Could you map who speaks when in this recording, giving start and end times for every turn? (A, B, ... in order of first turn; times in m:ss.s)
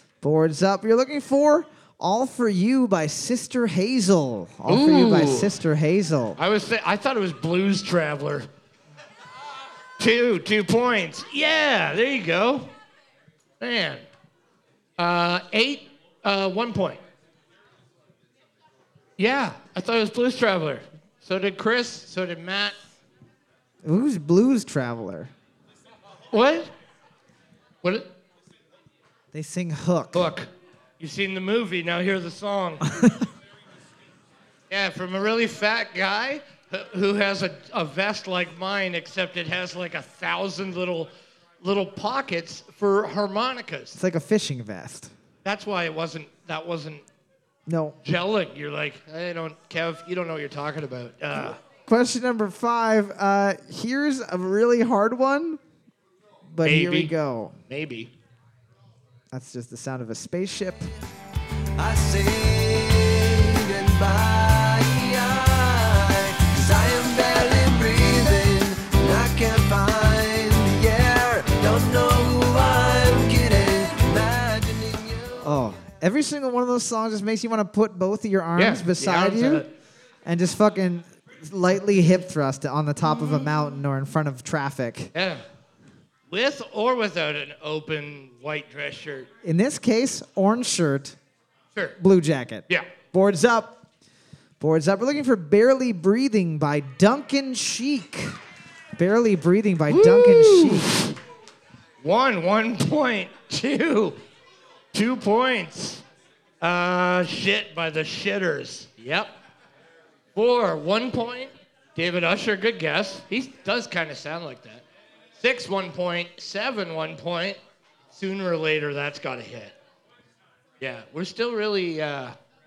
0:00.2-0:06.4 A
0:04.7-0:05.5 B
0:06.4-0:08.5 B
0:10.0-0:12.7 B
0:13.6-0:14.0 B
0:15.0-0:17.0 B
0:19.2-0:22.8 B
0:23.8-0:25.3 A
0:26.3-0:26.7 B
0:27.8-0:28.1 B
0:29.3-0:30.3 A
0:30.1-0:32.8 B
0:34.7-0:41.1 B
0:41.6-0:44.0 B
0:43.9-0:45.1 A
0:45.4-0:47.0 B
0:47.7-0:48.0 A
0:48.0-0:51.6 B
0:51.7-0:55.6 A
0:56.5-0:57.5 A
0:56.6-0:57.1 B
0:57.7-0:58.1 B
0:59.3-1:00.9 A
1:01.8-1:15.5 C
1:15.4-1:19.6 A
1:18.6-1:19.7 B
1:20.2-1:25.1 A
1:25.1-1:25.4 B
1:26.3-1:29.3 B
1:29.4-1:31.2 A
1:32.0-1:33.8 A
1:34.6-1:38.4 A
1:39.0-1:40.9 A
1:39.9-1:41.2 B
1:42.0-1:44.2 B
1:44.9-1:46.0 B
1:46.6-1:49.3 B
1:50.4-1:54.8 B
1:55.4-1:57.6 B
1:58.1-1:59.7 B
2:00.8-2:02.4 B